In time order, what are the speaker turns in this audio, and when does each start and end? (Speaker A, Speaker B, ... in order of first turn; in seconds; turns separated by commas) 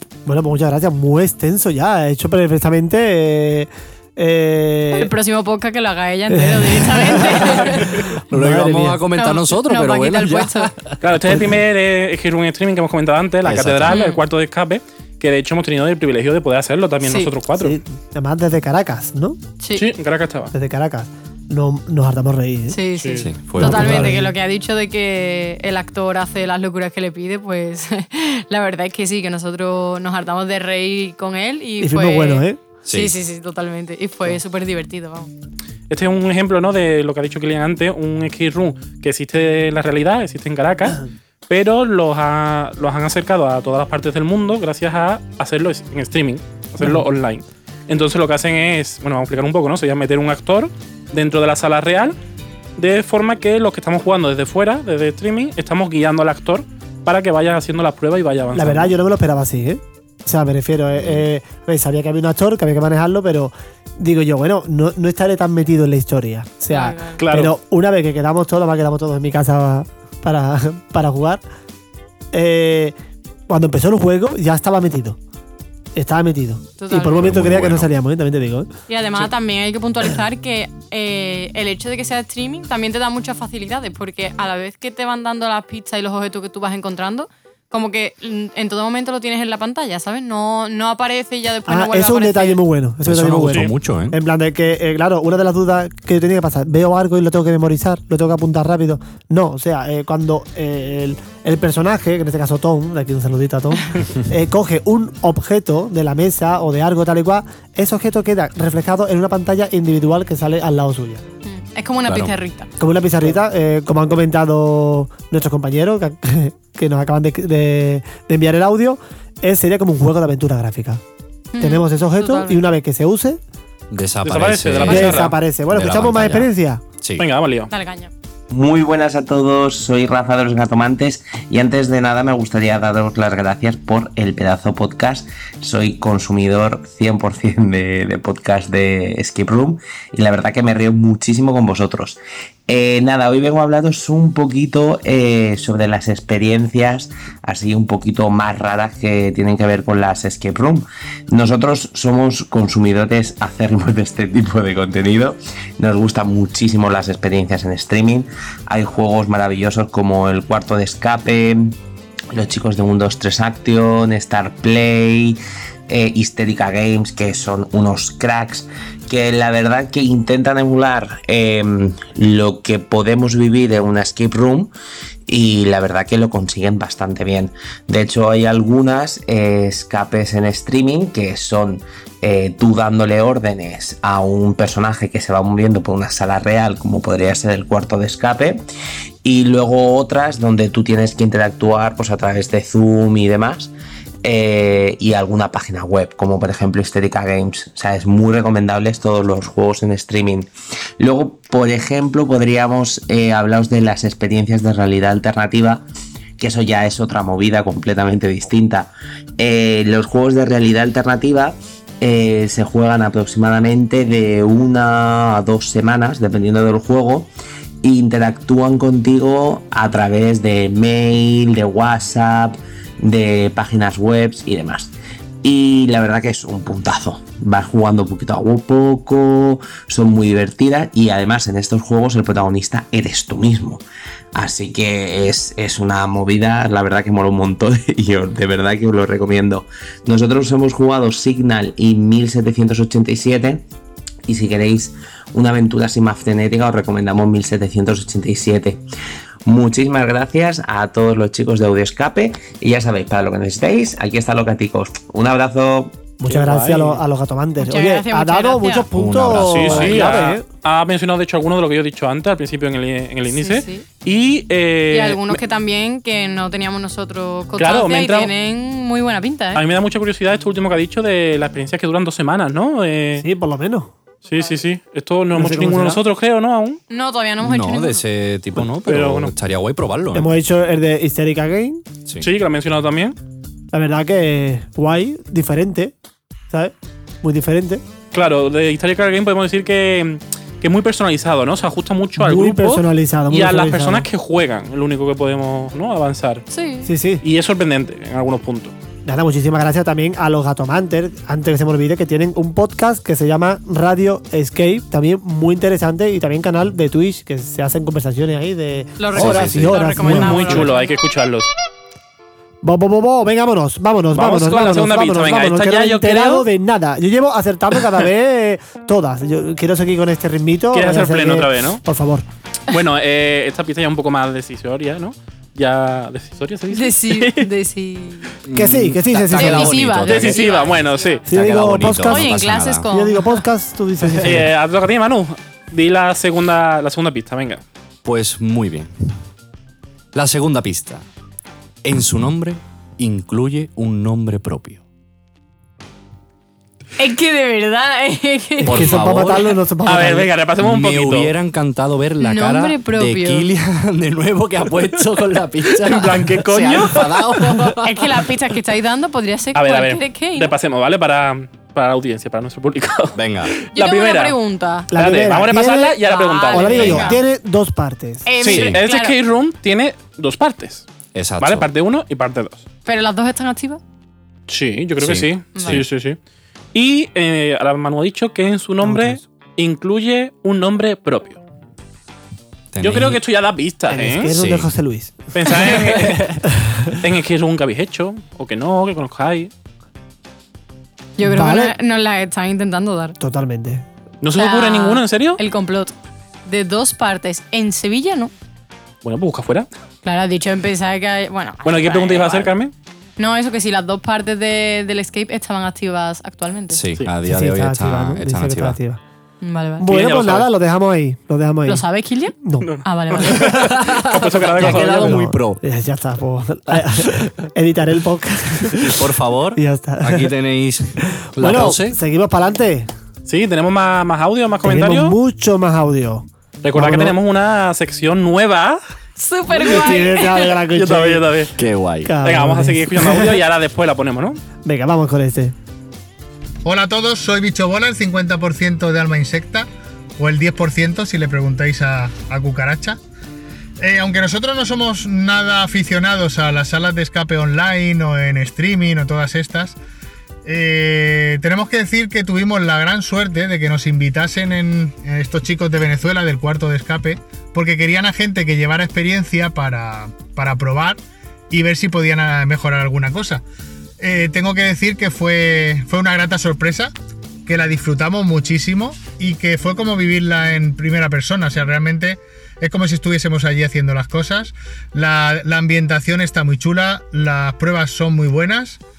Speaker A: 0.2-5.1, Speaker B: 4.9-8.0, Speaker A: 6.3-9.0, Speaker C: 8.3-11.3, Speaker B: 9.1-10.7, Speaker D: 11.0-17.8, Speaker C: 13.4-14.0, Speaker B: 13.9-14.2, Speaker B: 17.0-17.3, Speaker A: 17.6-19.4, Speaker B: 19.6-19.9, Speaker D: 19.8-20.5, Speaker A: 20.5-22.8, Speaker B: 22.7-35.3, Speaker D: 23.0-23.3, Speaker C: 23.2-24.1, Speaker A: 23.6-24.3, Speaker A: 31.8-32.6, Speaker C: 32.9-33.2, Speaker D: 35.9-52.1, Speaker D: 52.8-58.9, Speaker A: 58.5-71.4, Speaker B: 66.7-67.2, Speaker D: 67.2-67.5, Speaker A: 72.3-73.0, Speaker A: 73.5-75.2, Speaker A: 75.9-78.7, Speaker B: 76.8-77.3, Speaker C: 77.2-77.9, Speaker B: 78.9-92.6, Speaker A: 91.7-111.2, Speaker C: 93.0-94.2, Speaker B: 111.4-112.7, Speaker C: 112.1-112.3, Speaker A: 112.8-121.0, Speaker B: 121.5-122.6, Speaker A: 121.6-123.4, Speaker C: 123.9-127.2, Speaker D: 124.2-125.3, Speaker A: 124.8-126.8, Speaker D: 127.2-127.7, Speaker B: 127.7-128.1, Speaker E: 128.5-161.8, Speaker E: 162.3-174.7, Speaker E: 175.3-188.6, Speaker E: 189.2-193.7, Speaker E: 194.2-205.8, Speaker E: 206.4-217.3, Speaker E: 217.8-233.8, Speaker E: 234.3-243.6, Speaker E: 244.3-248.8, Speaker E: 249.4-256.1, Speaker A: 256.2-260.4, Speaker D: 256.3-257.0, Speaker B: 257.6-258.9, Speaker C: 258.9-260.1, Speaker D: 259.3-265.4, Speaker B: 263.3-263.9, Speaker B: 264.9-269.6, Speaker D: 267.6-268.3, Speaker D: 269.5-273.2, Speaker A: 273.2-273.9, Speaker D: 274.2-276.8, Speaker A: 275.3-276.0, Speaker B: 276.9-278.0, Speaker C: 277.4-280.3, Speaker D: 278.8-279.3, Speaker A: 280.1-281.8, Speaker D: 282.2-283.1, Speaker A: 283.7-285.9, Speaker A: 286.5-287.8, Speaker D: 288.1-296.4, Speaker A: 292.2-294.1, Speaker B: 296.5-296.9, Speaker A: 296.8-297.2, Speaker D: 297.2-298.7, Speaker A: 299.0-310.7, Speaker B: 309.0-310.9, Speaker C: 309.2-309.8, Speaker D: 310.0-311.5, Speaker A: 312.6-322.2, Speaker D: 314.1-316.4, Speaker D: 320.7-321.8, Speaker D: 322.7-327.5, Speaker B: 326.7-328.3, Speaker C: 328.4-330.4, Speaker A: 328.5-329.8, Speaker B: 329.3-331.2, Speaker D: 330.1-331.2, Speaker A: 331.3-332.3, Speaker C: 331.3-332.9, Speaker B: 332.1-333.4, Speaker A: 332.9-334.5, Speaker D: 334.2-337.6, Speaker C: 338.0-338.9, Speaker C: 340.1-341.0, Speaker C: 341.8-344.8, Speaker B: 347.0-349.0, Speaker A: 348.6-350.3, Speaker C: 348.6-349.5, Speaker D: 349.8-351.3, Speaker C: 350.6-358.0, Speaker B: 352.2-353.5, Speaker D: 355.7-357.5, Speaker B: 357.4-360.5, Speaker D: 359.5-364.4, Speaker C: 363.1-363.5, Speaker B: 363.7-364.9, Speaker A: 364.9-368.3, Speaker D: 364.9-367.1, Speaker B: 366.1-367.2, Speaker B: 368.2-369.1, Speaker D: 368.4-370.9, Speaker C: 368.4-368.8, Speaker C: 371.1-371.7, Speaker D: 371.4-372.6, Speaker B: 372.9-373.8, Speaker D: 374.5-376.2, Speaker C: 375.0-375.9, Speaker B: 375.5-375.8, Speaker D: 376.7-381.4, Speaker A: 378.8-379.2, Speaker C: 382.7-383.2, Speaker D: 382.8-384.3, Speaker A: 383.9-385.9, Speaker C: 384.3-384.7, Speaker D: 385.3-386.4, Speaker D: 387.0-389.5, Speaker B: 391.2-393.1, Speaker A: 391.2-391.7, Speaker A: 393.2-393.8, Speaker D: 394.2-395.4, Speaker B: 394.4-395.9, Speaker B: 396.4-398.3, Speaker D: 399.0-399.7, Speaker B: 400.0-402.5, Speaker D: 401.6-402.7, Speaker B: 403.2-406.8, Speaker C: 406.7-408.8, Speaker A: 407.2-409.0, Speaker B: 409.4-409.9, Speaker A: 409.8-411.9, Speaker D: 409.9-410.5, Speaker B: 411.7-413.6, Speaker A: 412.4-412.7, Speaker D: 412.6-415.3, Speaker C: 413.8-415.6, Speaker A: 414.6-420.3, Speaker C: 418.9-422.0, Speaker A: 421.4-422.9, Speaker D: 423.2-425.1, Speaker A: 424.6-427.1, Speaker D: 426.6-428.8, Speaker B: 429.2-430.6, Speaker A: 429.5-431.3, Speaker D: 430.7-431.5, Speaker C: 431.6-432.2, Speaker A: 432.0-433.4, Speaker D: 432.2-434.4, Speaker A: 434.6-435.5, Speaker F: 436.6-439.7, Speaker F: 440.2-443.0, Speaker F: 443.8-449.8, Speaker F: 450.4-463.4, Speaker F: 464.0-466.9, Speaker F: 467.4-478.8